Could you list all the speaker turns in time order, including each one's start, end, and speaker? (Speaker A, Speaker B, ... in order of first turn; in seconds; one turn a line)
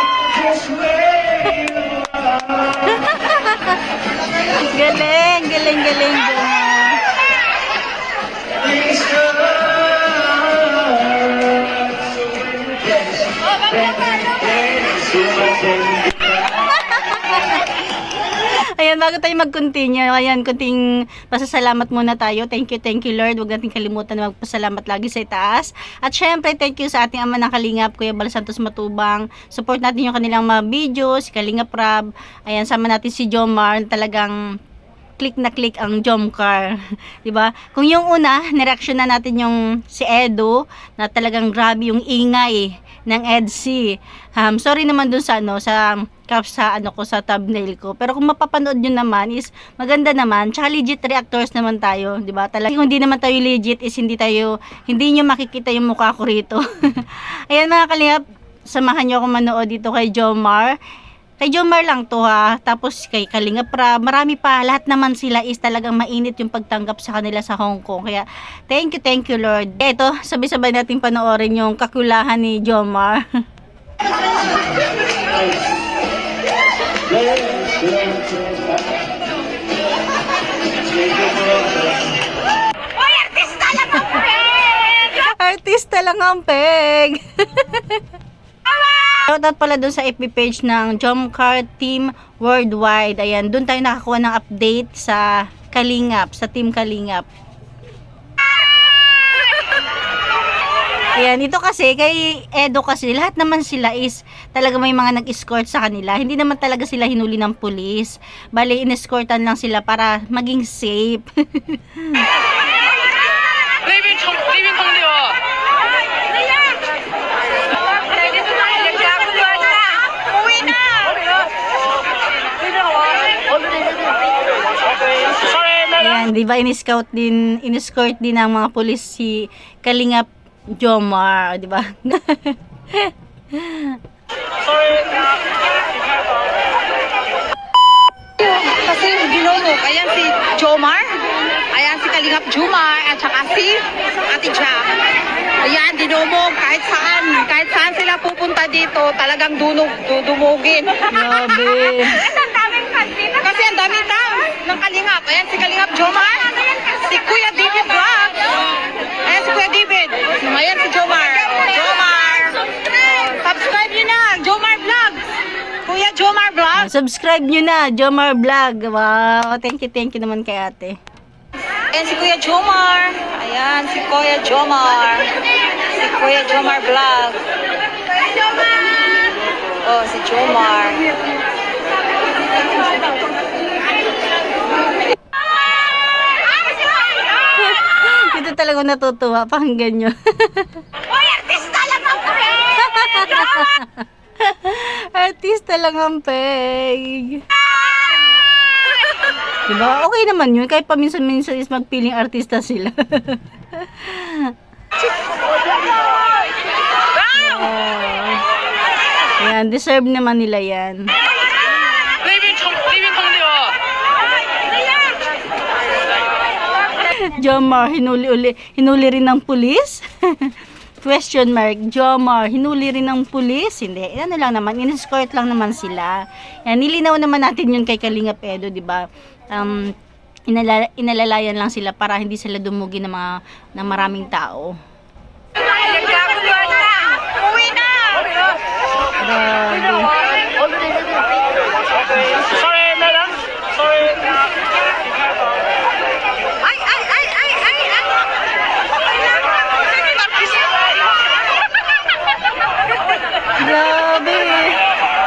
Speaker A: 1.1-1.8
Speaker A: 2.8-3.8
Speaker A: 4.5-7.0
Speaker A: 16.5-17.6
Speaker A: 18.4-34.3
Speaker A: 35.2-60.8
Speaker A: 61.4-73.2
Speaker A: 83.8-84.2
Speaker A: 84.9-88.0
Speaker A: 89.1-97.3
Speaker A: 101.2-112.3
Speaker B: 113.8-115.3
Speaker B: 118.3-121.2
Speaker A: 125.9-134.0
Speaker B: 138.4-145.0
Speaker B: 145.5-151.1
Speaker A: 151.1-152.3
Speaker B: 152.3-158.6
Speaker B: 159.2-165.3
Speaker B: 165.8-166.8
Speaker A: 166.8-171.0
Speaker B: 171.9-177.4
Speaker B: 179.8-181.1
Speaker A: 187.5-190.8
Speaker B: 191.4-192.1
Speaker A: 192.7-197.4
Speaker A: 199.7-204.5
Speaker A: 207.3-208.4
Speaker A: 209.4-211.1
Speaker B: 212.2-213.7
Speaker A: 217.1-229.9
Speaker A: 230.5-234.8
Speaker B: 235.9-238.2
Speaker A: 239.2-240.1
Speaker B: 247.3-247.6
Speaker A: 253.6-254.8